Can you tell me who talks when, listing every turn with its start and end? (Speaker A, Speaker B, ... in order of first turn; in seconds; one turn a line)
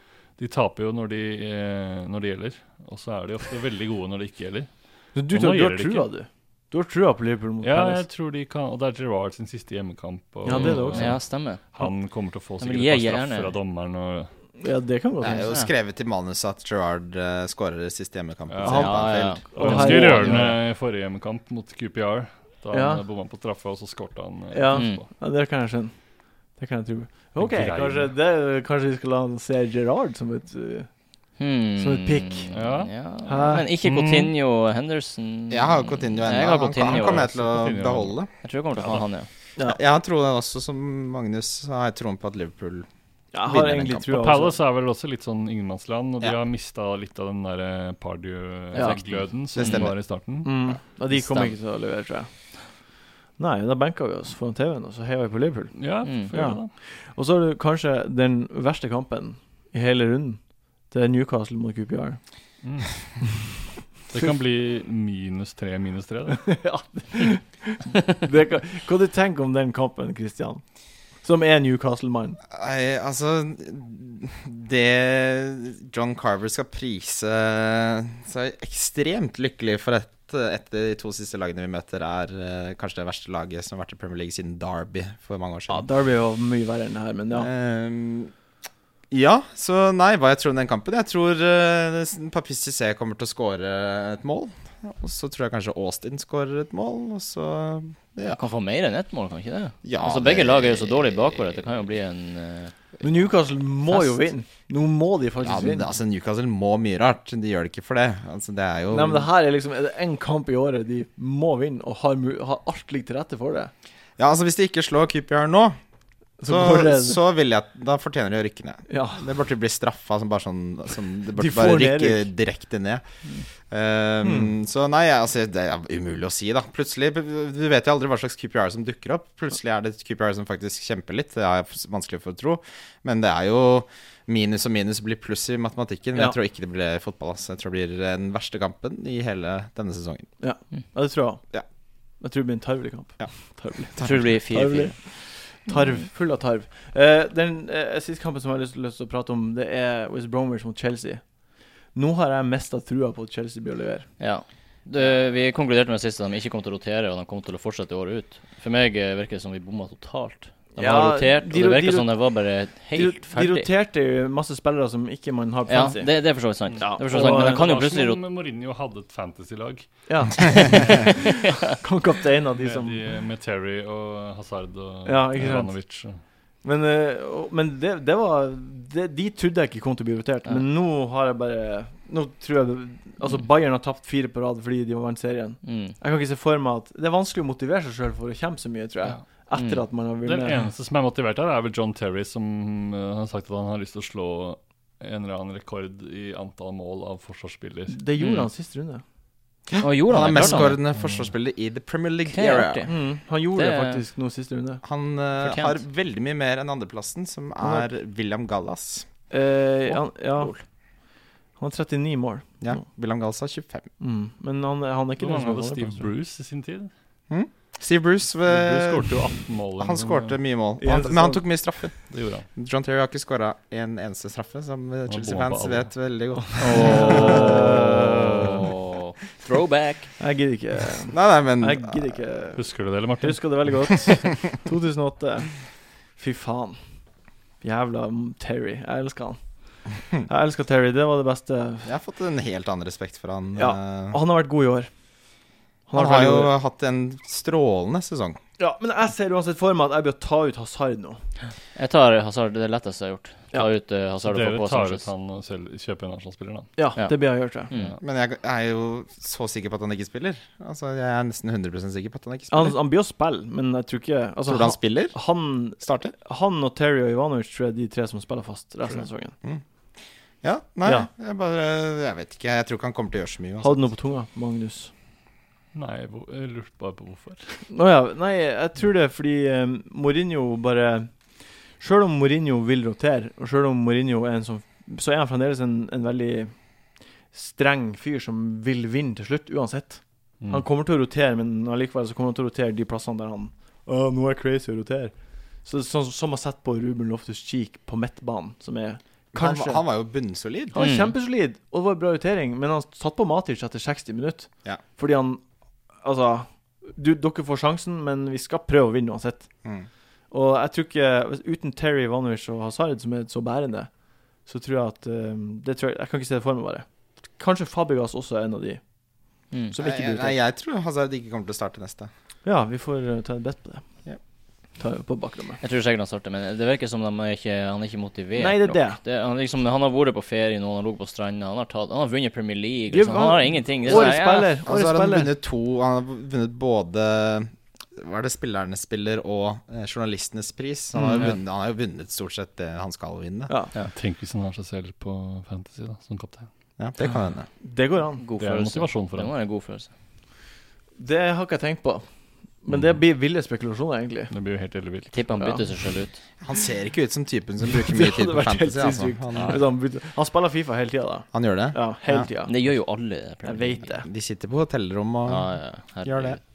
Speaker A: 0.3-6.1
Speaker B: 5.1-8.0
Speaker A: 7.6-14.3
Speaker B: 10.4-11.2
Speaker C: 10.5-11.9
Speaker C: 12.6-13.5
Speaker B: 14.6-15.6
Speaker D: 15.2-19.4
Speaker A: 18.5-25.1
Speaker C: 18.6-20.5
Speaker B: 18.6-20.6
Speaker B: 22.7-23.0
Speaker B: 24.5-30.9
Speaker C: 24.7-25.0
Speaker A: 27.4-28.1
Speaker C: 31.4-37.3
Speaker B: 31.8-32.5
Speaker A: 32.5-32.9
Speaker B: 33.3-33.7
Speaker A: 33.9-34.3
Speaker D: 35.5-38.3
Speaker A: 36.8-38.2
Speaker C: 38.4-39.3
Speaker A: 38.8-39.1
Speaker D: 39.6-42.9
Speaker B: 43.3-44.6
Speaker D: 43.4-44.1
Speaker A: 44.1-50.5
Speaker B: 48.7-49.0
Speaker C: 48.8-49.9
Speaker D: 49.5-50.0
Speaker B: 50.4-52.3
Speaker C: 51.1-51.6
Speaker B: 53.4-62.2
Speaker A: 55.8-56.7
Speaker C: 56.0-56.3
Speaker A: 62.6-66.7
Speaker B: 66.3-72.4
Speaker D: 72.5-85.8
Speaker B: 85.7-87.5
Speaker D: 87.3-88.3
Speaker D: 89.1-98.4
Speaker C: 98.2-102.8
Speaker D: 99.8-101.5
Speaker B: 103.0-105.9
Speaker D: 105.4-109.3
Speaker B: 108.9-113.7
Speaker D: 114.2-115.8
Speaker B: 116.4-117.2
Speaker D: 116.4-123.0
Speaker B: 118.9-119.3
Speaker B: 121.3-122.3
Speaker D: 123.6-140.3
Speaker B: 124.2-124.5
Speaker B: 140.4-141.4
Speaker B: 142.2-151.3
Speaker D: 143.9-144.2
Speaker C: 144.0-145.1
Speaker C: 145.7-146.1
Speaker B: 151.9-154.1
Speaker C: 154.2-163.7
Speaker B: 160.8-162.2
Speaker B: 162.9-167.7
Speaker C: 165.7-168.2
Speaker A: 166.6-171.7
Speaker B: 170.1-173.0
Speaker C: 170.5-171.7
Speaker A: 172.6-176.2
Speaker B: 175.1-175.9
Speaker B: 176.6-190.6
Speaker C: 185.6-185.9
Speaker C: 189.5-189.8
Speaker A: 190.2-198.0
Speaker B: 197.9-199.0
Speaker C: 198.2-198.5
Speaker D: 199.7-202.8
Speaker C: 199.8-200.8
Speaker A: 200.4-201.3
Speaker C: 202.3-203.0
Speaker B: 202.9-204.8
Speaker C: 203.5-204.0
Speaker D: 204.8-209.1
Speaker C: 205.4-205.8
Speaker B: 207.6-207.9
Speaker B: 209.3-210.7
Speaker C: 209.9-210.6
Speaker B: 211.6-212.8
Speaker D: 212.6-213.9
Speaker B: 214.0-216.1
Speaker A: 215.2-216.9
Speaker D: 217.3-227.4
Speaker A: 218.5-220.4
Speaker B: 220.8-221.4
Speaker A: 222.1-222.4
Speaker A: 225.1-225.9
Speaker A: 226.6-228.6
Speaker B: 226.6-227.9
Speaker C: 226.6-230.1
Speaker B: 230.2-235.6
Speaker D: 231.1-232.2
Speaker A: 232.6-233.6
Speaker B: 236.2-236.8
Speaker B: 237.6-239.4
Speaker B: 240.2-241.9
Speaker D: 241.8-244.2
Speaker B: 243.6-244.9
Speaker B: 245.9-246.5
Speaker D: 245.9-248.4
Speaker B: 248.6-251.2
Speaker C: 251.8-255.1
Speaker A: 254.2-256.7
Speaker B: 256.8-257.7
Speaker C: 257.7-257.9
Speaker D: 258.0-262.8
Speaker B: 262.5-269.4
Speaker D: 264.4-265.1
Speaker D: 265.8-266.1
Speaker D: 270.4-273.9
Speaker B: 273.6-274.9
Speaker A: 275.7-277.6
Speaker B: 277.7-281.1
Speaker B: 281.8-286.5
Speaker B: 287.3-299.8
Speaker A: 290.4-290.6
Speaker D: 299.3-300.8
Speaker B: 300.7-305.4
Speaker C: 300.8-301.1
Speaker B: 305.9-309.5
Speaker B: 310.3-313.9
Speaker B: 314.4-318.8
Speaker B: 319.7-320.4
Speaker D: 319.8-322.1
Speaker B: 322.4-323.9
Speaker B: 324.8-325.6
Speaker C: 325.6-334.5
Speaker B: 328.4-329.0
Speaker B: 332.9-335.3
Speaker D: 333.9-343.5
Speaker B: 340.9-341.3
Speaker C: 341.1-341.4
Speaker A: 343.9-346.5
Speaker D: 346.8-347.5
Speaker B: 347.6-348.2
Speaker C: 348.2-349.9
Speaker A: 348.4-349.3
Speaker B: 351.0-352.1
Speaker B: 352.6-354.3
Speaker A: 354.3-355.2
Speaker C: 355.1-356.2
Speaker D: 356.4-359.6
Speaker B: 357.7-362.7
Speaker A: 359.3-359.6
Speaker D: 361.3-362.3
Speaker C: 362.4-363.9
Speaker B: 363.4-364.1
Speaker D: 364.0-366.4
Speaker C: 365.3-366.4